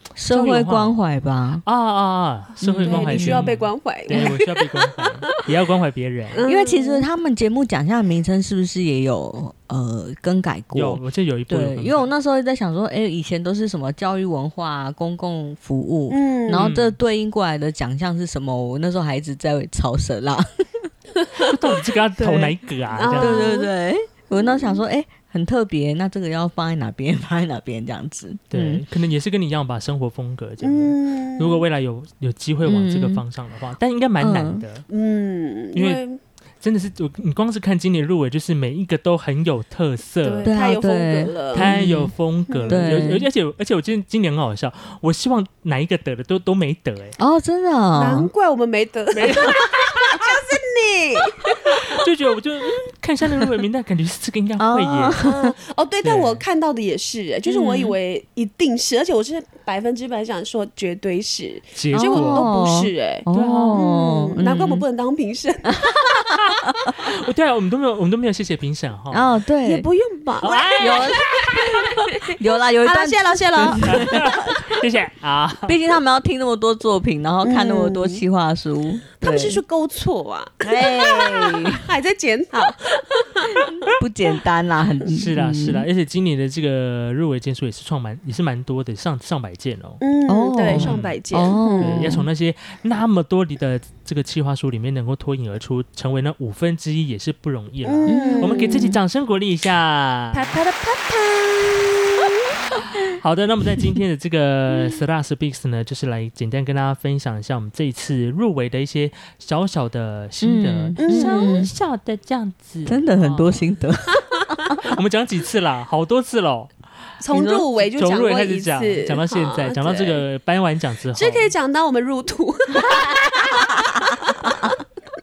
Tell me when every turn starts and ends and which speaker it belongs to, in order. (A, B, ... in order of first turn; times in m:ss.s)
0:00.2-0:01.6 A
0:00.3-0:01.0 B
0:01.6-0:06.4 B
0:02.6-0:03.5 A
0:02.8-0:05.4 C
0:06.3-0:07.0 C
0:06.4-0:20.9 A
0:10.7-0:12.1 B
0:16.1-0:16.7 C
0:16.5-0:17.0 B
0:21.2-0:23.7 C
0:21.4-0:23.5 B
0:23.2-0:28.8 A
0:24.4-0:24.8 C
0:28.5-0:34.9 B
0:30.6-0:31.6 C
0:32.6-0:33.2 A
0:34.2-0:34.6 A
0:34.9-0:36.2 C
0:35.7-0:36.0 B
0:36.6-0:40.5 B
0:40.2-0:41.8 C
0:40.4-0:42.1 A
0:41.5-0:47.2 B
0:42.5-0:43.1 C
0:42.7-0:43.2 A
0:47.2-0:48.3 A
0:47.9-0:52.0 C
0:49.1-0:50.2 B
0:51.7-0:55.2 B
0:53.3-0:53.6 A
0:54.6-0:55.5 A
0:55.2-1:06.6 C
0:56.0-0:56.4 B
0:57.5-0:57.9 A
1:01.7-1:02.5 B
1:01.9-1:04.8 A
1:03.3-1:03.8 B
1:05.8-1:06.4 A
1:06.9-1:09.4 B
1:09.1-1:09.8 A
1:09.6-1:14.3 C
1:10.4-1:11.2 B
1:10.7-1:11.6 A
1:12.3-1:14.8 A
1:13.8-1:15.8 B
1:15.6-1:19.6 A
1:17.4-1:18.2 C
1:19.2-1:23.9 C
1:20.6-1:21.8 A
1:23.9-1:25.9 A
1:25.1-1:30.0 B
1:30.0-1:32.2 C
1:30.3-1:32.3 A
1:30.7-1:40.6 B
1:37.8-1:39.0 C
1:38.0-1:39.0 A
1:40.3-1:42.6 C
1:42.7-1:53.7 B
1:50.4-1:51.7 A
1:51.0-1:51.6 C
1:52.8-1:54.8 A
1:54.8-1:56.8 B
1:57.2-2:00.2 C
1:57.3-1:57.7 A
1:57.8-2:01.5 B
2:01.1-2:04.7 C